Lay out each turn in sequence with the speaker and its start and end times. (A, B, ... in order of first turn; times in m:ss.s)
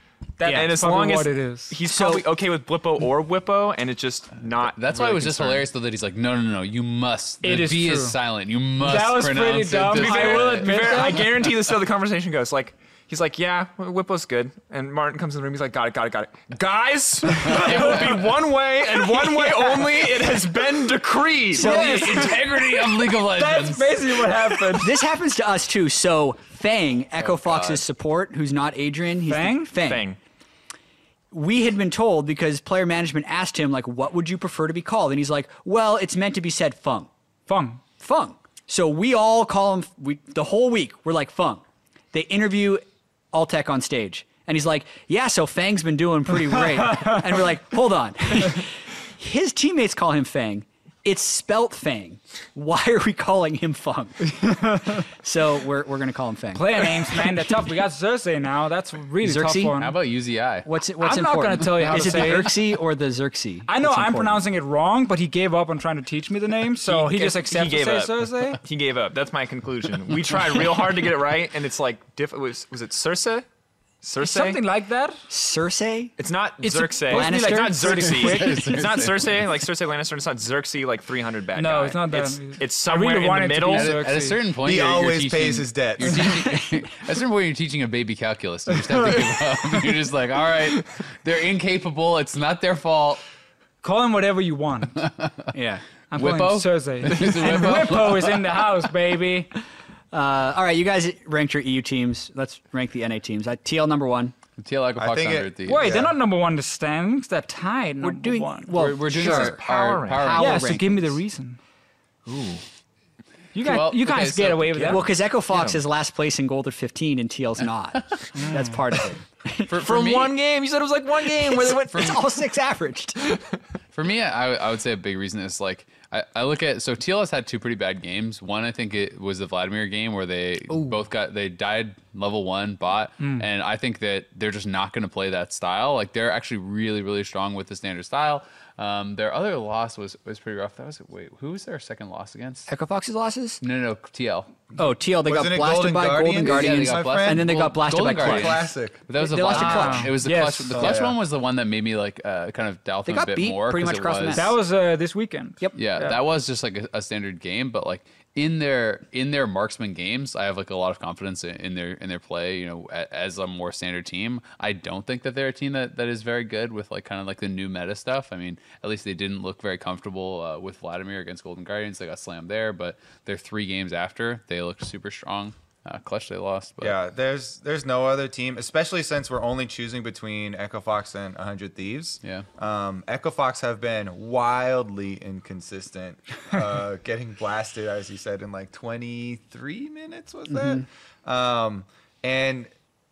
0:00.4-0:01.8 A
0:00.5-0:00.7 B
0:00.5-0:05.7 C
0:01.8-0:02.2 B
0:04.6-0:11.1 D
0:07.4-0:08.2 A
0:08.8-0:11.2 A
0:09.9-0:22.3 C
0:17.4-0:18.2 D
0:19.1-0:19.9 B
0:21.5-0:22.3 B
0:21.6-0:25.0 A
0:21.6-0:24.5 D
0:24.8-0:30.1 B
0:27.2-0:27.8 D
0:29.3-0:29.7 A
0:29.8-0:30.2 C
0:31.3-0:37.1 B
0:37.5-0:37.8 A
0:38.0-0:57.2 B
0:46.8-0:47.2 A
0:54.3-0:55.0 A
0:56.5-1:00.0 A
0:59.2-0:59.7 B
0:59.8-1:00.7 D
1:00.6-1:04.4 B
1:01.0-1:02.5 A
1:01.8-1:02.4 D
1:03.7-1:08.6 A
1:06.8-1:13.4 C
1:14.0-1:14.6 C
1:14.2-1:15.3 A
1:15.3-1:16.1 B
1:16.2-1:24.0 C
1:16.6-1:18.6 A
1:17.1-1:18.2 B
1:18.0-1:19.5 D
1:21.6-1:24.4 A
1:23.7-1:33.2 D
1:24.6-1:26.4 E
1:26.2-1:26.8 B
1:33.8-1:35.1 A
1:35.0-1:35.5 D
1:35.5-1:35.8 B
1:36.1-1:39.5 A
1:36.1-1:38.5 D
1:40.1-1:44.3 B
1:44.6-1:46.0 D
1:45.0-1:46.1 E
1:45.7-1:48.7 A
1:48.0-1:49.6 B
1:48.7-1:50.8 D
1:49.1-1:50.3 C
1:50.1-1:51.2 B
1:50.3-1:51.6 A
1:52.3-1:52.6 C
1:53.5-1:55.0 A
1:53.6-1:55.0 D
1:54.9-1:59.7 B
1:55.5-1:55.8 C
1:58.3-1:58.7 A
1:59.7-2:00.4 D
1:59.8-2:02.3 C
2:01.4-2:03.4 B
2:03.9-2:22.7 D
2:13.2-2:13.4 A
2:22.7-2:23.6 B
2:23.6-2:24.5 D
2:24.8-2:30.1 B
2:25.2-2:27.5 E
2:26.4-2:34.5 D
2:28.1-2:29.0 E
2:29.5-2:31.0 A
2:30.7-2:31.2 E
2:33.1-2:34.6 B
2:34.3-2:36.2 A
2:35.8-2:57.0 D
2:56.8-3:12.7 E
3:10.5-3:10.8 B